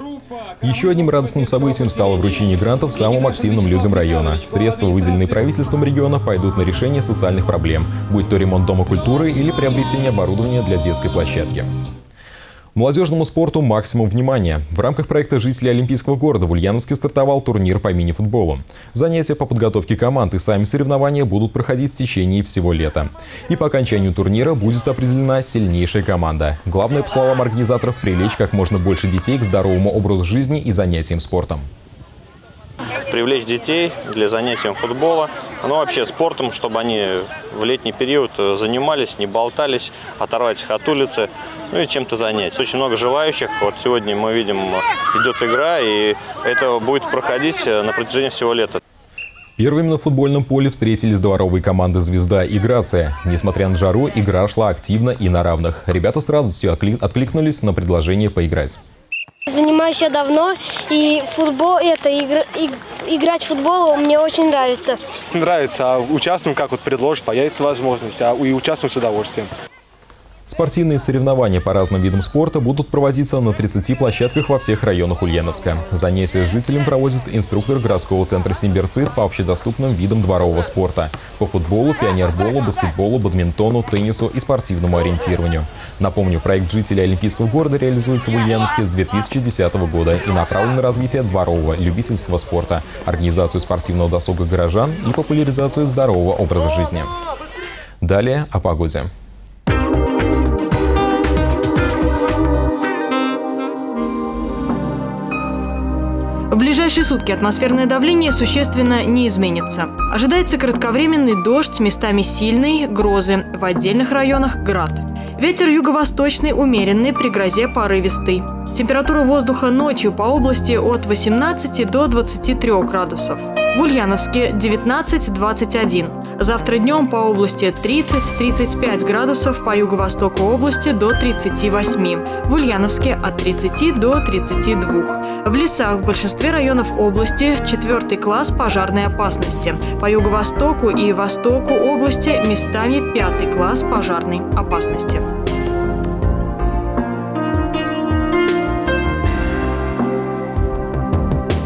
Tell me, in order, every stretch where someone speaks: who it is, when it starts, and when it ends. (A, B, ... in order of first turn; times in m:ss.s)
0:00.6-0:11.7 A
0:12.8-0:31.6 A
0:33.1-0:48.8 B
0:49.6-0:58.8 A
0:59.5-1:05.0 C
1:05.3-1:09.5 D
1:10.5-1:37.1 A
1:38.0-1:39.1 A
1:46.5-2:25.2 E